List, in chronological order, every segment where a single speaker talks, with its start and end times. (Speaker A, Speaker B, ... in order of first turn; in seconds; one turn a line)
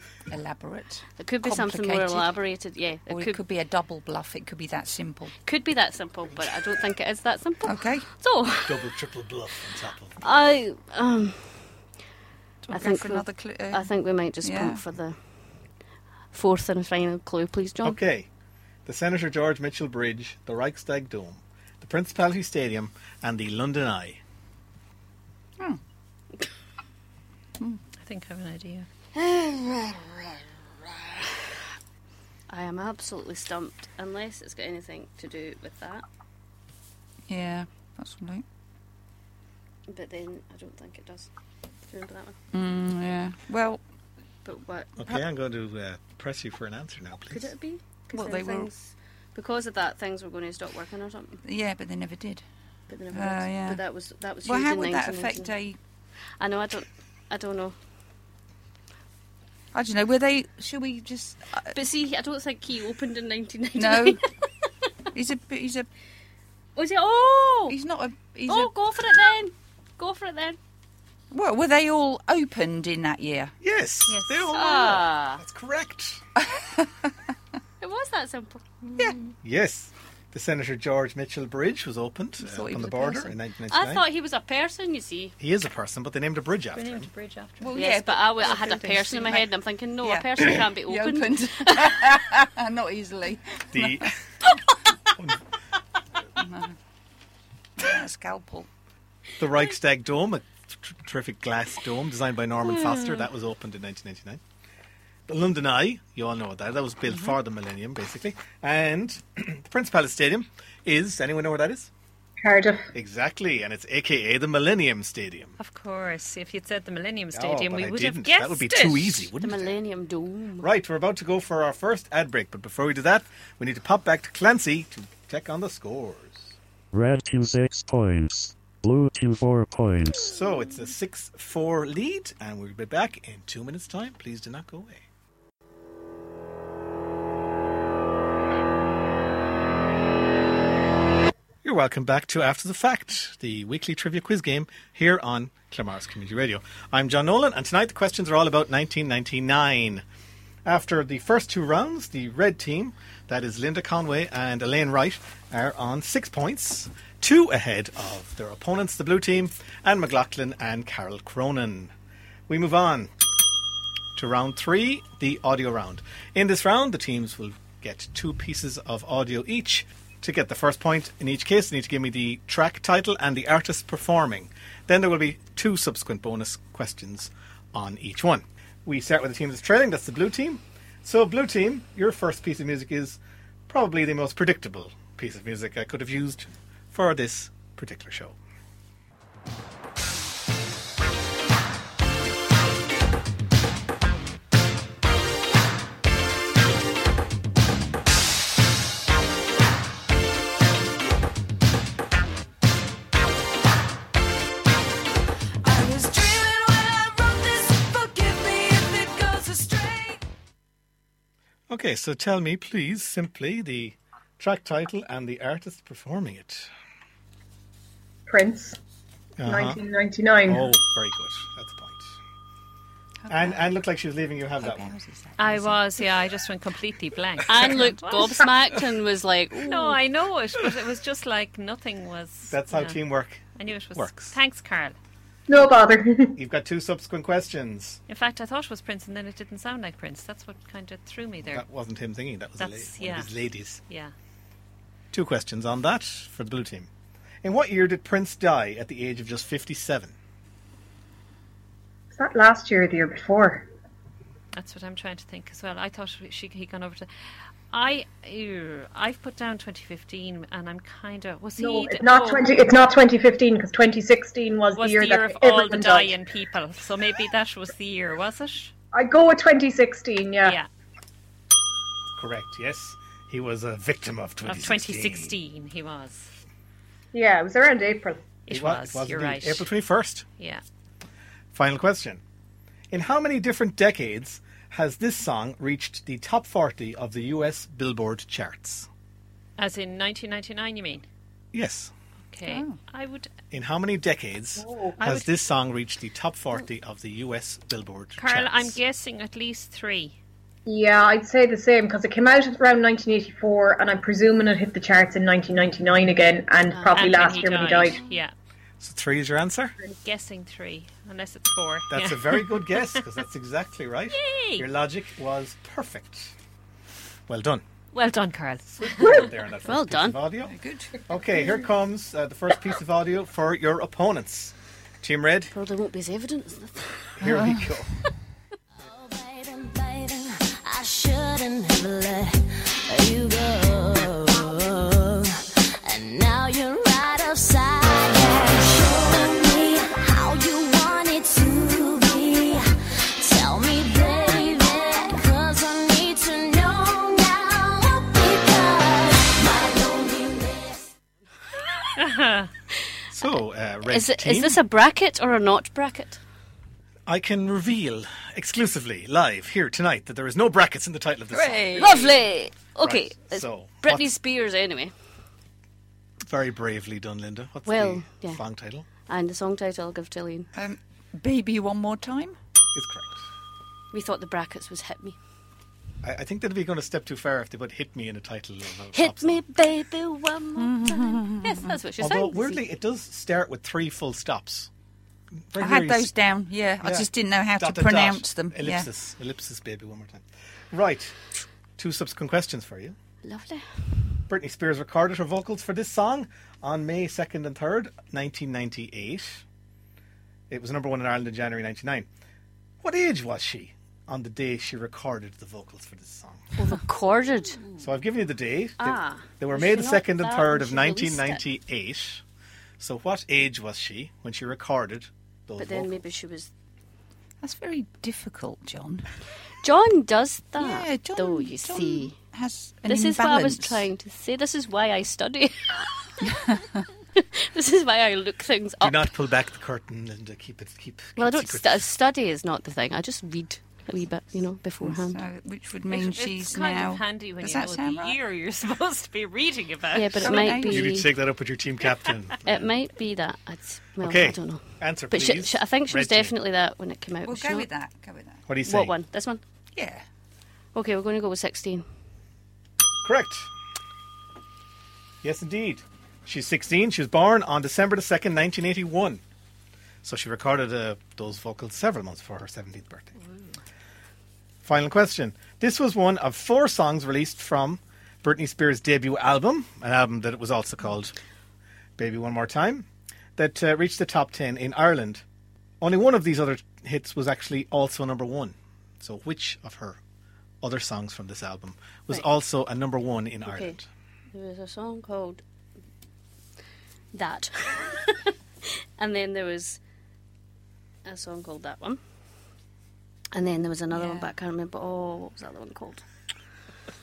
Speaker A: 0.3-2.4
Speaker B: 1.2-3.4
Speaker A: 3.1-5.3
Speaker B: 5.4-8.9
Speaker A: 7.6-8.1
Speaker C: 8.6-10.2
Speaker B: 10.2-11.7
Speaker A: 12.7-13.9
Speaker B: 12.7-15.2
Speaker A: 14.4-14.8
Speaker B: 16.3-18.0
Speaker C: 17.8-18.3
Speaker C: 18.9-24.2
Speaker D: 28.0-28.9
Speaker B: 29.1-30.4
Speaker B: 32.5-36.0
Speaker A: 37.3-38.4
Speaker B: 39.9-41.3
Speaker B: 41.9-42.4
Speaker A: 42.5-43.8
Speaker B: 44.4-44.9
Speaker C: 45.0-47.5
Speaker B: 47.3-51.4
Speaker A: 48.1-48.7
Speaker A: 51.4-52.4
Speaker B: 52.9-55.5
Speaker A: 53.1-53.8
Speaker A: 54.4-55.8
Speaker B: 56.4-57.8
Speaker A: 59.7-61.8
Speaker B: 61.7-64.2
Speaker A: 63.8-64.2
Speaker A: 65.1-65.9
Speaker B: 66.8-67.8
Speaker A: 67.7-68.7
Speaker B: 68.5-70.6
Speaker A: 71.3-73.5
Speaker C: 73.6-76.2
Speaker D: 74.1-74.5
Speaker B: 74.5-75.4
Speaker A: 76.4-77.1
Speaker B: 77.8-78.6
Speaker D: 78.8-79.2
Speaker C: 79.4-84.0
Speaker A: 82.4-83.3
Speaker B: 83.7-85.3
Speaker C: 85.4-87.1
Speaker D: 86.7-87.7
Speaker A: 87.6-89.5
Speaker B: 87.7-92.0
Speaker D: 88.6-89.3
Speaker A: 90.0-94.8
Speaker C: 93.7-94.1
Speaker A: 96.4-96.8
Speaker A: 97.8-98.7
Speaker C: 99.4-104.4
Speaker C: 105.3-111.9
Speaker E: 112.4-112.9
Speaker C: 112.9-115.6
Speaker D: 115.6-119.3
Speaker C: 117.3-119.7
Speaker B: 119.4-120.7
Speaker C: 120.6-126.5
Speaker F: 126.9-130.3
Speaker C: 130.1-135.1
Speaker C: 141.6-150.0
Speaker C: 150.6-161.9
Speaker C: 162.5-163.1
Speaker C: 164.2-188.3
Speaker A: 205.6-210.2
Speaker C: 211.7-216.7
Speaker E: 218.3-218.8
Speaker C: 219.4-219.8
Speaker E: 219.4-220.6
Speaker C: 220.4-222.2
Speaker A: 223.2-223.6
Speaker C: 223.3-224.9
Speaker A: 224.6-225.8
Speaker D: 225.4-228.4
Speaker B: 227.5-230.0
Speaker D: 229.6-233.0
Speaker C: 232.5-234.3
Speaker D: 233.6-234.9
Speaker E: 235.5-236.4
Speaker C: 236.3-238.0
Speaker D: 238.1-241.6
Speaker C: 241.4-243.8
Speaker D: 242.6-243.3
Speaker D: 243.9-244.1
Speaker C: 245.1-246.9
Speaker C: 247.4-250.1
Speaker E: 252.1-253.7
Speaker D: 254.5-257.1
Speaker D: 257.7-262.5
Speaker E: 261.6-266.1
Speaker D: 264.8-268.7
Speaker E: 268.9-270.6
Speaker C: 272.1-275.3
Speaker D: 274.4-276.3
Speaker E: 277.1-278.2
Speaker D: 278.5-279.7
Speaker C: 278.5-280.3
Speaker C: 281.5-282.2
Speaker C: 282.9-288.9
Speaker D: 289.6-291.1
Speaker C: 291.5-291.9
Speaker D: 292.3-293.3
Speaker A: 292.4-292.8
Speaker C: 293.5-298.8
Speaker E: 294.6-294.9
Speaker D: 295.0-295.3
Speaker D: 298.2-300.2
Speaker E: 300.6-308.0
Speaker B: 306.7-307.3
Speaker D: 306.9-308.3
Speaker C: 308.8-309.7
Speaker D: 310.0-313.0
Speaker C: 311.9-316.3
Speaker D: 314.1-314.6
Speaker C: 317.3-317.6
Speaker D: 317.9-319.3
Speaker C: 318.8-320.5
Speaker B: 319.6-320.2
Speaker A: 320.4-321.0
Speaker C: 321.1-325.5
Speaker B: 325.5-327.1
Speaker C: 327.2-327.9
Speaker A: 327.2-327.8
Speaker G: 328.8-350.9
Speaker D: 352.0-352.5
Speaker C: 353.1-354.6
Speaker B: 353.9-356.2
Speaker C: 357.1-361.9
Speaker A: 361.3-362.1
Speaker B: 361.8-364.9
Speaker C: 362.8-364.1
Speaker C: 366.2-368.9
Speaker B: 367.6-368.4
Speaker B: 369.1-370.5
Speaker A: 370.5-372.4
Speaker C: 372.7-373.2
Speaker B: 373.9-375.2
Speaker C: 376.0-379.4
Speaker B: 378.9-382.6
Speaker A: 380.6-381.7
Speaker C: 382.0-384.7
Speaker C: 385.5-386.1
Speaker A: 385.6-388.9
Speaker C: 386.8-391.2
Speaker C: 391.8-392.9
Speaker B: 393.2-393.8
Speaker C: 394.3-399.4
Speaker C: 400.5-402.1
Speaker C: 402.8-406.5
Speaker B: 406.6-407.6
Speaker C: 407.8-412.2
Speaker B: 408.8-411.4
Speaker C: 412.8-415.9
Speaker B: 415.6-416.5
Speaker A: 417.4-419.1
Speaker B: 419.6-422.1
Speaker A: 420.6-423.9
Speaker B: 422.9-425.9
Speaker A: 426.3-426.6
Speaker B: 427.1-429.1
Speaker C: 428.8-431.8
Speaker B: 431.2-435.2
Speaker A: 434.8-438.2
Speaker D: 435.9-440.3
Speaker B: 439.9-441.1
Speaker A: 440.2-441.0
Speaker C: 440.7-442.7
Speaker B: 442.4-447.7
Speaker C: 444.0-446.3
Speaker A: 447.2-448.4
Speaker C: 448.5-448.9
Speaker B: 448.6-449.4
Speaker A: 449.8-450.0
Speaker B: 450.7-451.9
Speaker C: 453.0-453.5
Speaker C: 455.2-459.2
Speaker C: 460.0-463.1
Speaker C: 464.6-471.1
Speaker C: 472.0-475.2
Speaker C: 475.8-480.0
Speaker C: 480.6-483.9
Speaker B: 483.4-483.8
Speaker B: 484.3-485.4
Speaker B: 487.1-488.3
Speaker B: 489.0-489.8
Speaker B: 491.0-492.0
Speaker B: 493.3-496.0
Speaker A: 493.9-494.3